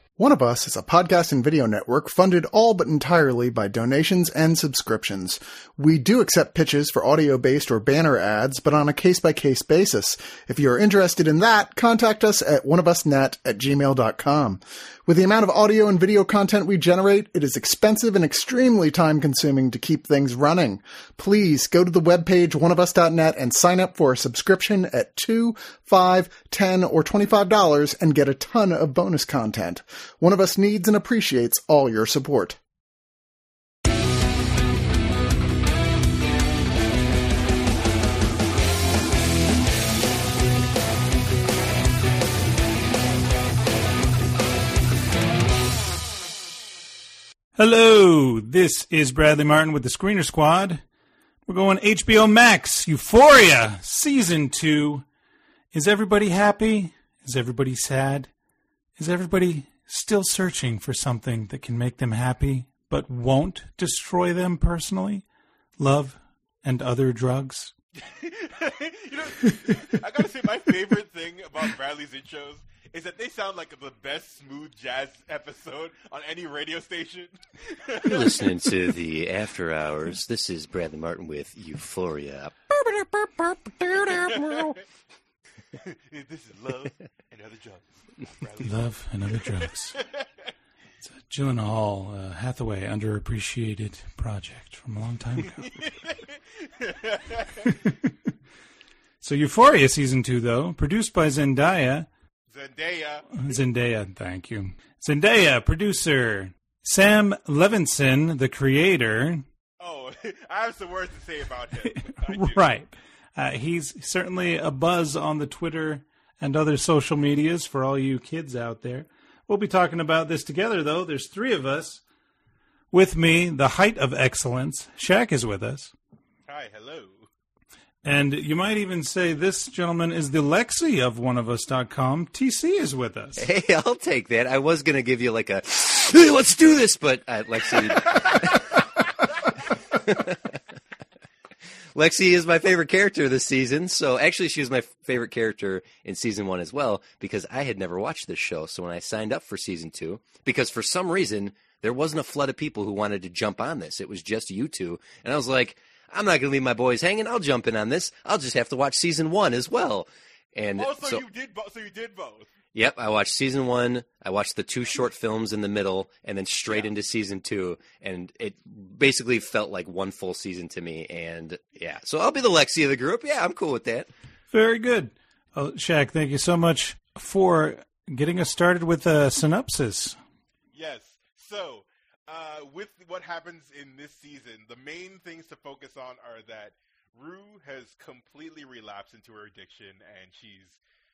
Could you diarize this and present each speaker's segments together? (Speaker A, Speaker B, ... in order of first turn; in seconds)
Speaker A: 0.2-32.6
Speaker B: 47.5-50.8, 51.5-55.0, 55.7-58.3, 59.0-65.2, 65.8-67.7, 88.6-90.0, 91.0-95.8, 99.2-102.1, 103.3-109.4, 111.8-122.0, 122.9-125.9, 128.0-133.4, 174.5-180.2
Speaker C: 68.0-78.6, 84.1-84.8, 85.7-90.5, 95.6-97.9, 102.5-103.5, 109.8-112.6, 126.5-127.3, 160.8-162.5, 180.7-190.8
Speaker D: 78.0-84.8, 133.4-139.1, 139.6-140.6, 141.9-161.2, 162.7-174.1